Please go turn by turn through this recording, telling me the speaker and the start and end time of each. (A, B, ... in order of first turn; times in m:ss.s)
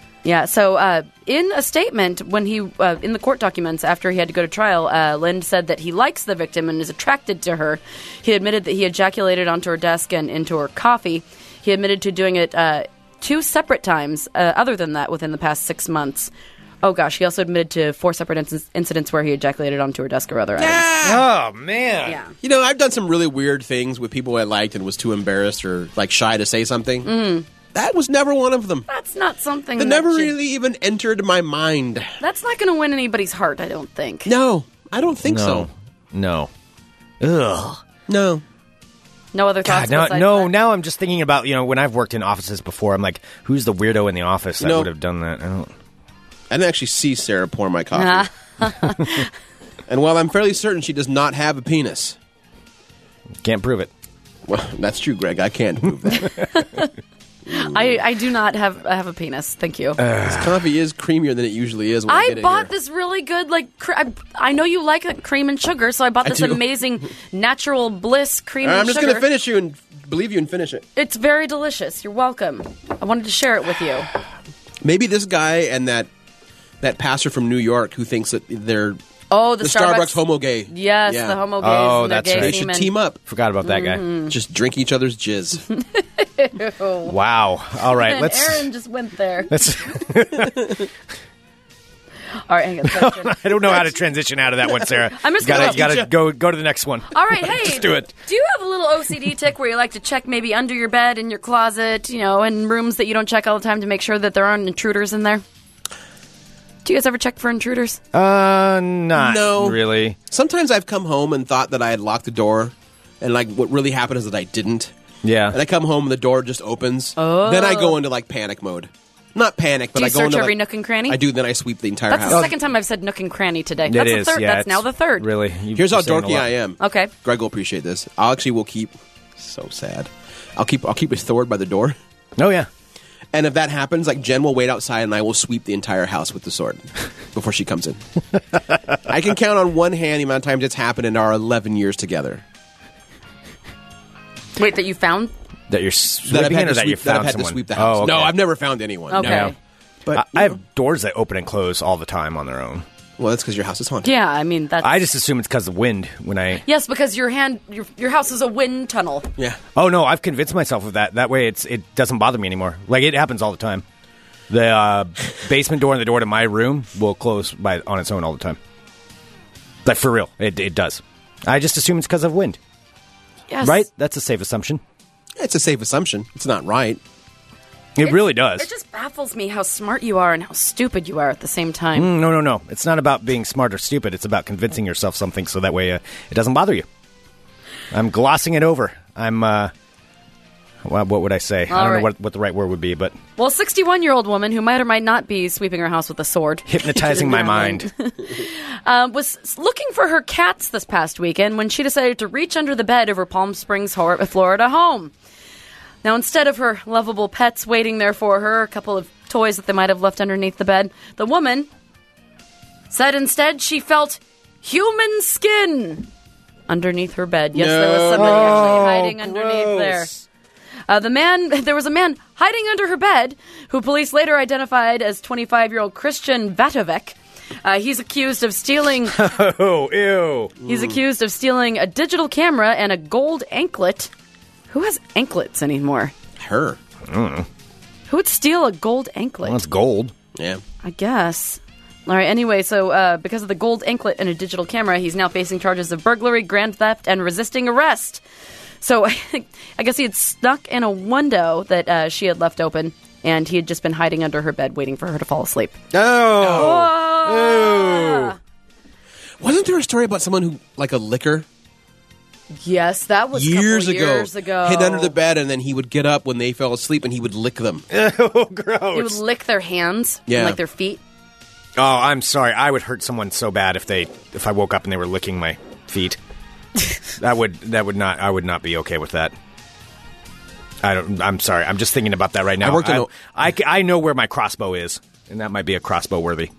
0:00.2-0:20.8 A
0:20.6-0:21.3 B
0:21.0-0:22.2 C
0:22.0-0:22.3 A
0:22.4-0:27.1 B
0:27.0-0:27.5 A
0:27.7-0:28.9 B
0:28.9-0:30.3 A
0:29.8-0:32.1 B
0:32.2-0:34.3 A
0:34.2-0:35.7 B
0:35.2-0:36.5 C
0:37.2-0:37.8 C
0:38.1-0:38.4 B
0:39.3-0:40.5 A
0:39.6-0:45.7 C
0:44.6-0:44.9 B
0:46.5-0:48.3 B
0:48.0-0:49.3 A
0:49.9-0:52.2 B
0:53.4-0:53.9 C
0:54.5-0:56.4 B
0:56.2-0:56.9 A
0:57.5-1:00.0 A
0:57.5-0:57.9 B
1:00.0-1:00.6 C
1:00.3-1:02.7 B
1:02.1-1:09.3 A
1:06.2-1:06.6 B
1:08.6-1:10.8 B
1:11.0-1:14.1 A
1:14.8-1:16.1 B
1:16.8-1:19.0 B
1:19.3-1:22.9 A
1:19.6-1:21.4 B
1:21.6-1:22.6 C
1:22.3-1:23.2 B
1:23.3-1:24.0 C
1:23.6-1:24.3 A
1:24.3-1:25.6 B
1:25.8-1:27.1 A
1:27.1-1:28.7 C
1:27.9-1:29.6 A
1:29.5-1:30.8 C
1:32.5-1:33.9 A
1:32.8-1:38.1 C
1:35.1-1:36.1 A
1:35.4-1:36.0 B
1:37.1-1:45.4 A
1:46.8-1:48.0 A
1:48.1-1:50.2 C
1:49.2-1:54.9 B
1:55.2-1:55.6 C
1:55.5-2:02.5 B
1:57.2-1:58.0 A
2:00.0-2:01.2 A
2:02.1-2:05.3 A
2:02.3-2:02.5 C
2:03.8-2:06.5 C
2:05.8-2:12.0 B
2:06.8-2:07.1 A
2:12.4-2:12.7 C
2:13.3-2:18.0 B
2:19.1-2:22.4 B
2:24.6-2:25.3 A
2:25.7-2:28.4 C
2:26.3-2:29.5 B
2:29.1-2:29.6 A
2:29.2-2:29.5 C
2:30.0-2:30.6 B
2:30.1-2:32.8 C
2:33.2-2:34.1 B
2:34.0-2:35.0 A
2:34.8-2:36.6 C
2:36.6-2:39.3 A
2:39.8-2:43.8 C
2:44.5-2:48.6 C
2:49.8-2:52.6 C
2:53.5-2:53.8 A
2:53.6-2:54.8 C
2:55.4-2:57.0 B
2:58.0-2:58.7 C
2:58.0-3:02.1 A
3:02.0-3:06.9 C
3:07.9-3:09.7 C
3:10.8-3:13.2 C
3:11.7-3:12.1 A
3:13.4-3:25.1 A
3:16.7-3:17.9 C
3:26.0-3:31.7 A
3:32.9-3:36.1 A
3:36.7-3:40.1 A
3:37.5-3:38.9 B
3:38.1-3:40.2 C
3:40.9-3:49.2 A
3:49.1-3:50.5 C
3:50.6-3:51.0 B
3:50.6-3:54.1 A
3:54.7-3:56.1 A
3:56.4-3:56.8 B
3:57.0-3:57.5 C
3:58.1-3:59.6 A
3:59.4-4:00.1 C
4:00.4-4:00.6 B
4:00.8-4:08.2 A
4:08.8-4:15.8 A
4:15.9-4:18.3 C
4:16.4-4:16.9 B
4:16.4-4:18.4 A
4:19.4-4:21.5 B
4:22.6-4:25.1 A
4:23.3-4:27.8 B
4:27.9-4:29.2 C
4:28.9-4:31.0 A
4:30.3-4:30.6 B
4:31.8-4:36.2 C
4:37.1-4:39.3 C
4:40.8-4:46.5 C
4:42.6-4:43.1 B